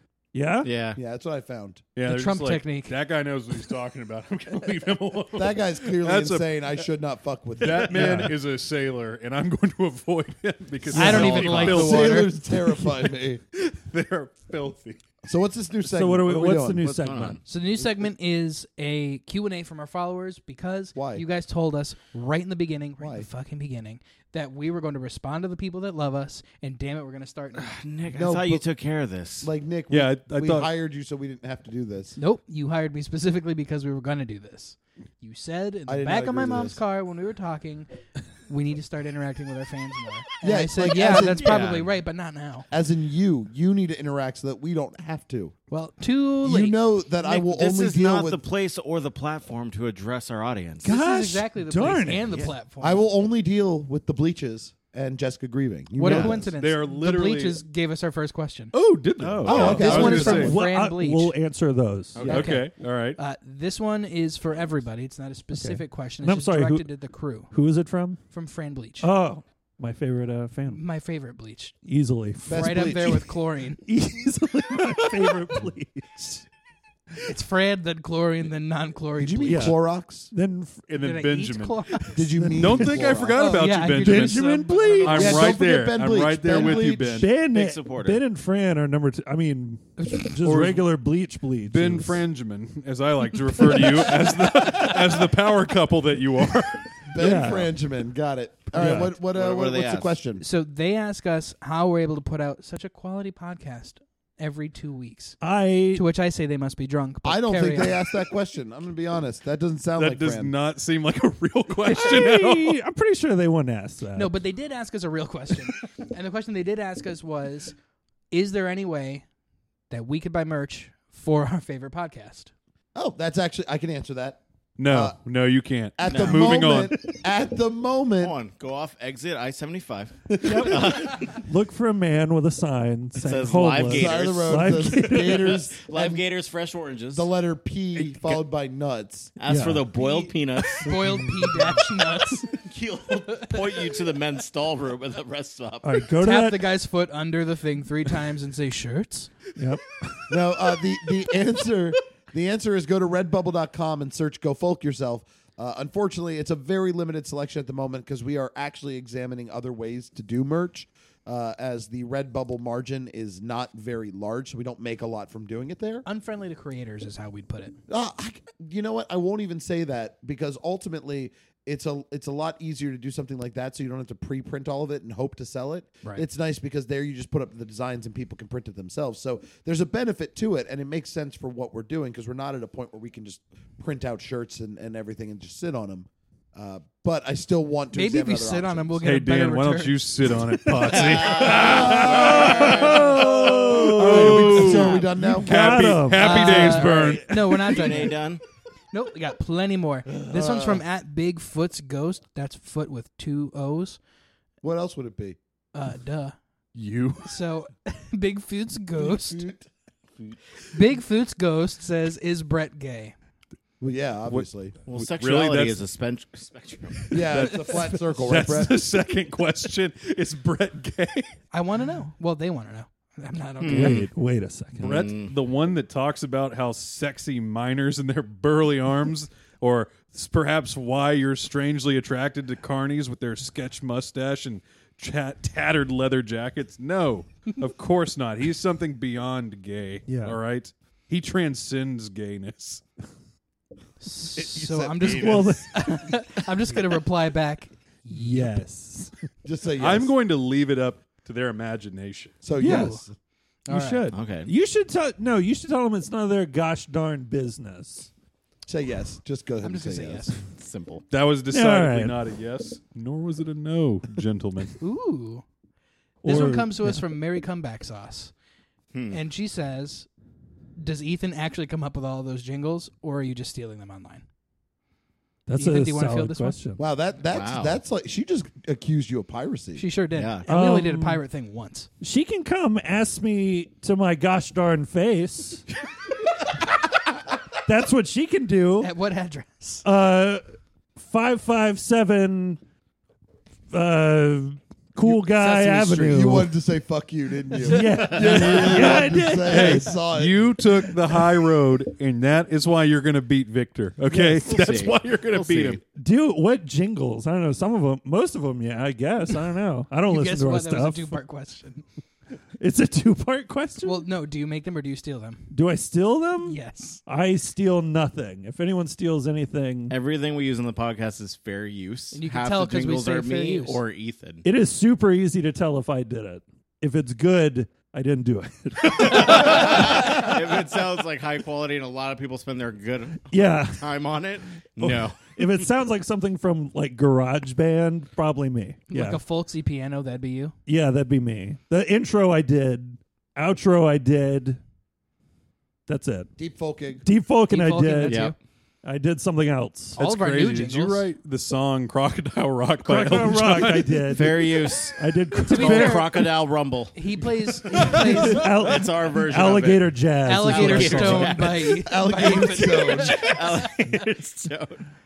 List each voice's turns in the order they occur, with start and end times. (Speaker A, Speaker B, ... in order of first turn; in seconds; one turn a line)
Speaker A: 0.3-0.7
Speaker B: 0.6-1.0
Speaker C: 0.9-1.8
Speaker D: 1.9-6.6
Speaker E: 2.0-2.9
Speaker C: 5.3-8.3
Speaker D: 7.6-15.0
Speaker A: 7.9-8.3
Speaker E: 10.9-12.2
Speaker A: 10.9-11.9
Speaker C: 10.9-13.4
Speaker C: 15.2-16.9
Speaker A: 15.8-17.4
Speaker B: 16.8-17.4
Speaker E: 17.5-27.8
Speaker C: 20.9-21.2
Speaker C: 23.0-23.3
Speaker B: 27.6-29.5
Speaker C: 28.1-28.6
Speaker C: 29.4-32.2
Speaker D: 29.9-30.7
Speaker E: 32.1-37.9
Speaker C: 35.9-36.8
Speaker E: 38.4-42.7
Speaker C: 40.4-41.8
Speaker B: 41.4-41.9
Speaker C: 42.7-45.5
Speaker E: 45.7-46.8
Speaker C: 46.4-48.4
Speaker B: 47.2-50.9
Speaker E: 50.8-53.1
Speaker A: 50.8-52.5
Speaker C: 52.8-56.5
Speaker E: 56.0-58.7
Speaker B: 56.0-56.4
Speaker D: 56.6-57.6
Speaker D: 58.7-60.6
Speaker B: 59.2-60.0
Speaker C: 59.4-60.5
Speaker E: 59.5-61.4
Speaker A: 59.8-62.2
Speaker B: 62.1-62.5
Speaker C: 62.2-62.5
Speaker E: 62.2-67.5
Speaker D: 62.3-63.2
Speaker A: 65.5-68.2
Speaker E: 68.3-69.1
Speaker A: 69.0-70.8
Speaker E: 70.7-71.8
Speaker A: 71.8-72.7
Speaker E: 72.5-73.8
Speaker C: 72.5-73.2
Speaker A: 73.8-76.4
Speaker E: 77.3-79.8
Speaker C: 79.2-80.3
Speaker A: 79.5-79.8
Speaker A: 80.3-80.9
Speaker D: 80.9-87.3
Speaker E: 81.0-82.2
Speaker C: 82.1-83.6
Speaker A: 82.4-82.8
Speaker E: 83.3-85.5
Speaker A: 84.0-85.5
Speaker C: 85.1-87.3
Speaker A: 87.1-92.2
Speaker B: 87.5-88.2
Speaker E: 90.0-90.3
Speaker D: 90.4-90.9
Speaker D: 91.7-97.6
Speaker A: 93.7-94.0
Speaker C: 97.1-100.4
Speaker A: 97.2-97.7
Speaker A: 98.7-99.1
Speaker B: 99.3-100.1
Speaker E: 100.4-105.4
Speaker A: 105.4-106.0
Speaker E: 105.9-108.1
Speaker C: 107.2-110.5
Speaker D: 110.0-112.8
Speaker A: 111.8-114.4
Speaker E: 114.1-117.8
Speaker E: 118.3-119.2
Speaker E: 119.9-122.5
Speaker C: 122.9-125.2
Speaker D: 124.8-126.9
Speaker C: 126.0-128.3
Speaker B: 126.0-126.7
Speaker B: 128.2-131.4
Speaker C: 130.3-131.0
Speaker A: 130.4-135.6
Speaker B: 133.1-137.3
Speaker C: 133.9-136.2
Speaker C: 137.1-139.3
Speaker B: 139.4-140.9
Speaker A: 139.4-139.9
Speaker E: 139.9-142.5
Speaker A: 140.8-141.8
Speaker B: 142.5-146.0
Speaker E: 143.3-143.6
Speaker A: 145.8-146.7
Speaker E: 146.2-149.3
Speaker A: 149.6-150.3
Speaker C: 150.3-166.0
Speaker E: 166.0-167.8
Speaker C: 167.9-189.0
Speaker E: 187.9-190.1
Speaker D: 189.0-197.2
Speaker B: 190.9-193.8
Speaker C: 191.5-195.8
Speaker A: 191.5-197.8
Speaker B: 194.6-195.1
Speaker E: 196.1-198.2
Speaker B: 197.6-198.4
Speaker E: 198.9-204.0
Speaker C: 200.2-200.8
Speaker C: 204.6-205.4
Speaker E: 205.7-206.4
Speaker D: 206.7-207.3
Speaker E: 207.2-209.4
Speaker C: 209.0-209.7
Speaker E: 210.7-213.1
Speaker C: 213.8-214.8
Speaker D: 214.3-215.8
Speaker B: 214.9-217.2
Speaker D: 217.0-221.3
Speaker C: 217.1-218.8
Speaker E: 221.5-224.1
Speaker B: 223.6-224.1
Speaker A: 223.7-224.9
Speaker B: 224.8-225.3
Speaker D: 224.8-242.8
Speaker A: 240.1-240.4
Speaker E: 244.0-248.6
Speaker C: 244.3-245.6
Speaker A: 245.1-246.1
Speaker A: 248.1-249.1
Speaker C: 249.4-250.1
Speaker D: 249.8-252.4
Speaker C: 252.4-253.1
Speaker E: 252.6-253.0
Speaker A: 252.6-253.0
Speaker E: 253.7-254.1
Speaker A: 253.7-258.1
Speaker B: 254.1-254.5
Speaker C: 258.7-260.3
Speaker E: 259.6-260.4
Speaker B: 260.5-261.0
Speaker D: 261.1-264.8
Speaker A: 261.5-262.2
Speaker E: 264.8-265.4
Speaker A: 266.2-267.0
Speaker E: 266.2-268.3
Speaker B: 268.9-269.2
Speaker E: 269.1-270.1
Speaker E: 270.8-274.2
Speaker A: 275.5-276.8
Speaker E: 275.6-276.6
Speaker C: 276.8-279.8
Speaker B: 277.3-277.8
Speaker E: 279.8-281.9
Speaker B: 280.1-280.4
Speaker A: 280.4-281.2
Speaker A: 282.0-285.6
Speaker A: 287.6-288.9
Speaker E: 288.8-289.9
Speaker A: 289.8-290.4
Speaker A: 291.0-292.6
Speaker A: 293.7-296.5
Speaker E: 295.1-296.4
Speaker C: 296.1-300.6
Speaker A: 297.6-300.0
Speaker B: 298.1-298.6
Speaker D: 298.2-298.8
Speaker D: 299.4-305.8
Speaker B: 304.2-305.8
Speaker A: 305.9-311.2
Speaker E: 310.1-311.8
Speaker A: 312.6-314.1
Speaker E: 313.8-315.5
Speaker A: 315.5-319.9
Speaker E: 316.4-317.0
Speaker B: 319.9-324.4
Speaker E: 322.1-323.8
Speaker A: 324.4-330.6
Speaker B: 328.9-335.7
Speaker A: 333.3-333.9
Speaker A: 334.8-339.2
Speaker E: 338.9-340.5
Speaker A: 340.6-344.6
Speaker A: 345.9-346.3
Speaker C: 346.4-347.0
Speaker A: 347.0-348.3
Speaker E: 347.5-348.4
Speaker B: 348.1-348.3
Speaker A: 348.8-350.0
Speaker E: 350.0-351.1
Speaker D: 350.0-354.0
Speaker A: 352.8-356.3
Speaker B: 354.1-356.9
Speaker E: 355.4-356.3
Speaker E: 356.9-358.5
Speaker D: 357.7-358.1
Speaker A: 357.8-361.6
Speaker B: 358.3-364.8
Speaker E: 360.2-363.8
Speaker C: 361.8-363.3